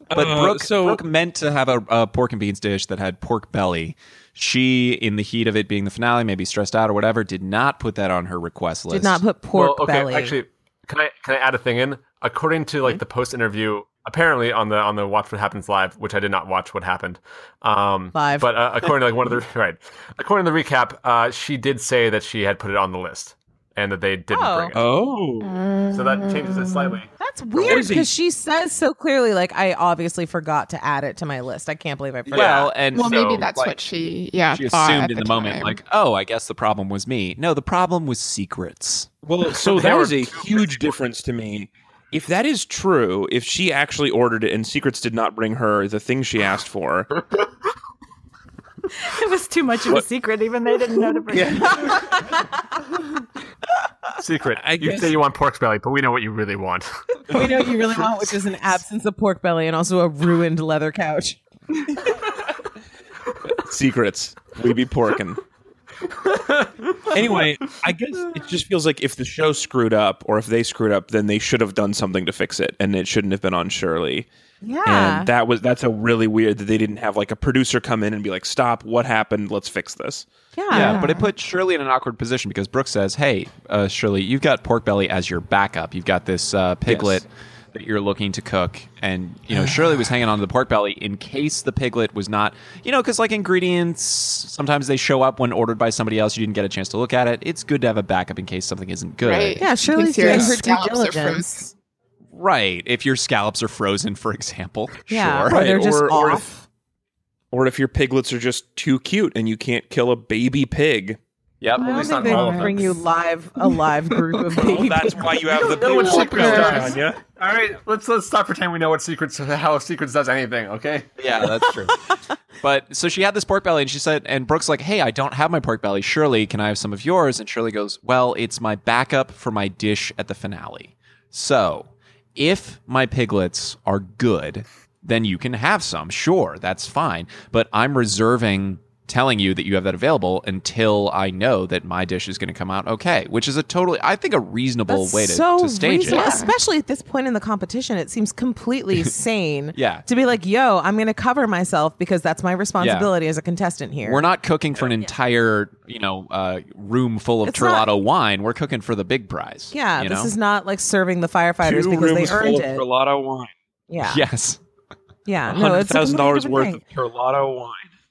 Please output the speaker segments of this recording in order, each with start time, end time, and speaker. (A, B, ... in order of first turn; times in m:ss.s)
0:00.1-0:01.0 A
0:00.1-0:09.2 B
0:08.9-0:10.4 C
0:09.5-0:24.8 D
0:18.1-0:18.5 C
0:24.3-0:24.8 C
0:24.7-0:25.5 A
0:25.4-0:27.0 E
0:25.9-0:27.9 D
0:27.2-0:32.7 C
0:27.6-0:28.1 A
0:32.3-0:33.8 B
0:32.3-0:33.4 D
0:32.9-0:35.8 E
0:34.5-0:39.1 B
0:39.2-0:47.2 A
0:39.5-0:40.7 D
0:48.9-0:51.9 F
0:51.3-0:52.2 A
0:54.2-0:56.9 D
0:54.6-0:55.2 A
0:57.3-1:01.4 C
0:57.3-0:57.6 A
1:03.5-1:05.4 A
1:06.3-1:07.2 D
1:07.1-1:14.3 A
1:14.6-1:15.3 C
1:14.8-1:20.3 A
1:20.5-1:21.2 C
1:20.7-1:39.7 B
1:20.7-1:21.2 E
1:26.8-1:27.2 A
1:39.2-1:41.7 E
1:39.6-1:41.7 C
1:42.3-1:45.6 B
1:45.1-1:46.6 C
1:45.5-1:46.5 A
1:47.5-1:51.2 A
1:51.6-1:52.7 B
1:51.8-1:52.9 D
1:51.8-1:55.4 C
1:54.5-1:57.2 A
1:55.5-2:01.7 D
1:56.3-1:56.8 C
1:56.4-1:56.8 E
2:01.2-2:02.0 B
2:02.6-2:26.4 B
2:24.9-2:34.3 C
2:26.1-2:26.5 E
2:29.7-2:30.0 B
2:32.8-2:33.1 B
2:34.0-2:40.3 B
2:37.4-2:37.9 C
2:39.7-2:42.8 C
2:41.6-2:43.5 A
2:43.9-2:44.2 C
2:44.0-2:44.6 B
2:45.2-2:46.8 C
2:45.5-2:47.9 A